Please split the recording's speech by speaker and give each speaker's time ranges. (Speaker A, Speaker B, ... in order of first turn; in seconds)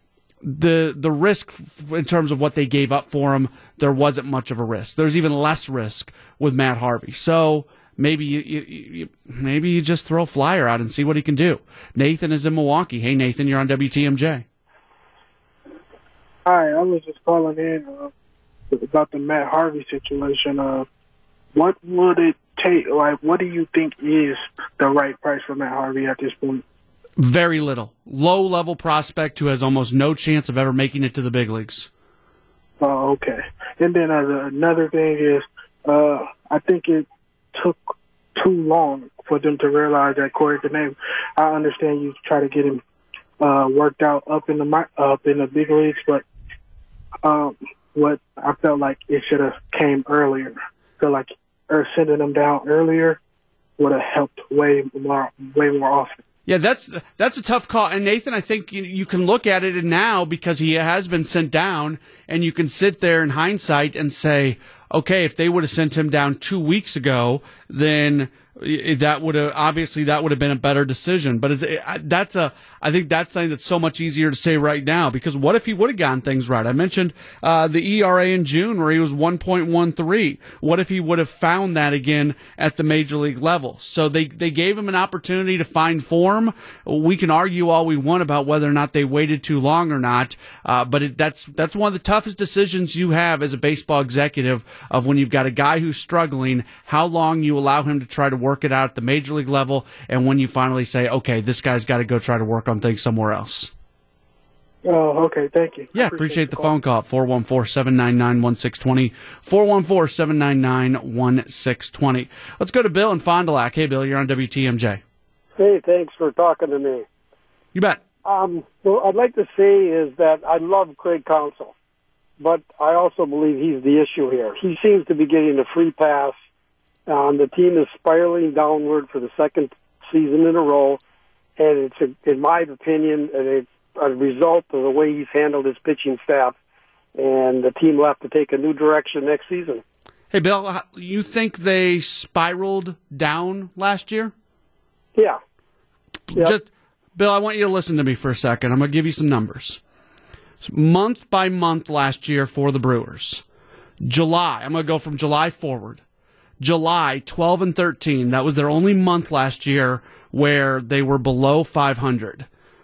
Speaker A: 0.4-14.4, 27.2-31.9, 56.5-103.7, 105.9-115.0, 117.7-118.0, 140.3-144.3, 146.3-149.8, 150.6-153.4, 154.0-156.0, 156.6-162.5
Speaker B: 16.4-18.1, 18.7-20.9, 21.5-26.6, 32.8-42.8, 43.4-46.2, 47.2-53.2, 53.8-56.1, 104.8-106.4
Speaker C: 115.6-117.0, 118.2-121.7, 122.4-126.4, 127.1-131.0, 131.6-136.6, 137.1-139.8